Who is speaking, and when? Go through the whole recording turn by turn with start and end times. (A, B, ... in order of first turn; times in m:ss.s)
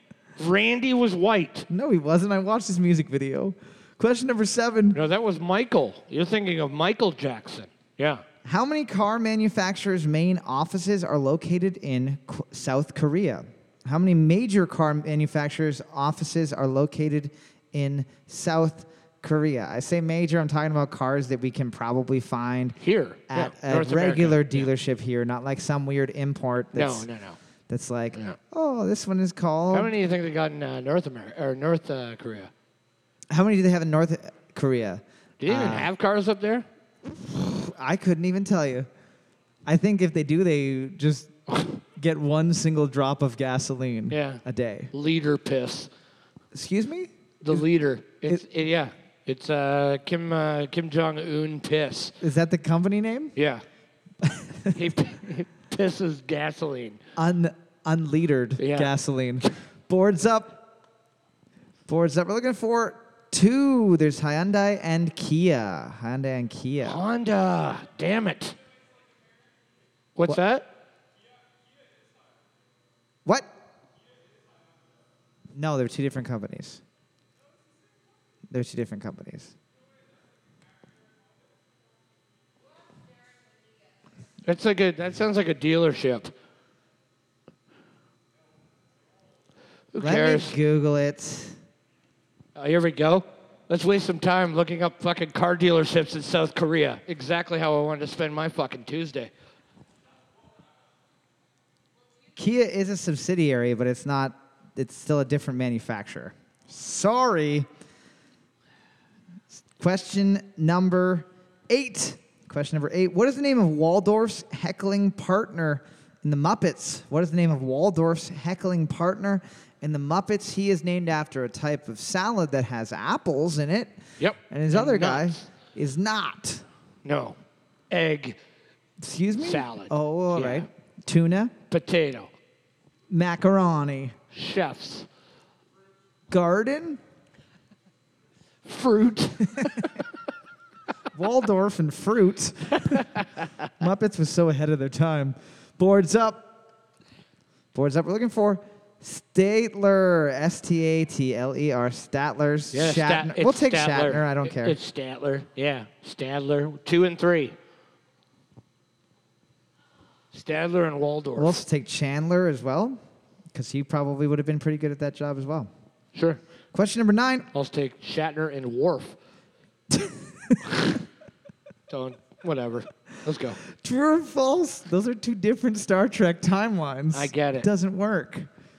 0:00.4-0:01.7 A
0:01.7-0:05.0 B
0:04.9-0:08.2 A
0:08.4-0:22.8 B
0:22.8-0:24.7 A
0:23.3-0:27.1 B
0:26.7-0:27.4 A
0:27.7-0:29.9 B
0:29.7-0:32.5 A
0:33.3-0:35.9 B
0:35.4-0:36.6 A
0:37.0-0:38.9 B
0:39.6-0:41.3 B
0:41.5-0:41.8 A
0:42.0-0:44.9 B
0:44.1-0:44.4 A
0:44.9-0:45.9 A
0:46.5-0:47.6 B
0:47.4-0:52.2 A
0:52.2-0:53.3 B
0:53.4-0:53.6 A
0:54.2-0:54.8 B
0:54.7-0:57.0 A
0:57.2-1:00.6 B
0:58.6-0:58.9 A
1:01.9-1:07.0 B
1:06.8-1:08.6 A
1:10.2-1:10.7 A
1:15.5-1:16.8 B
1:18.5-1:19.5 B
1:24.4-1:26.3 A
1:29.9-1:30.6 A
1:30.0-1:31.6 B
1:32.5-1:39.3 A
1:42.4-1:47.7 B
1:49.8-2:04.0 B
2:04.2-2:05.4 A
2:04.5-2:06.6 B
2:07.0-2:07.4 A
2:07.9-2:08.4 A
2:09.0-2:11.5 B
2:09.4-2:10.7 A
2:11.7-2:12.3 A
2:13.1-2:14.2 B
2:14.3-2:15.1 A
2:16.3-2:17.0 B
2:18.6-2:20.0 A
2:19.6-2:19.8 B
2:21.1-2:23.1 B
2:23.8-2:26.5 B
2:27.7-2:34.8 B
2:32.7-2:37.6 A
2:40.3-2:41.6 A
2:41.3-2:43.0 B
2:43.5-2:45.7 B
2:46.1-2:46.4 A
2:46.7-2:47.5 B
2:47.5-2:49.2 A
2:49.9-2:50.9 B
2:51.9-2:53.6 A
2:53.7-2:58.5 B
2:57.1-2:57.7 A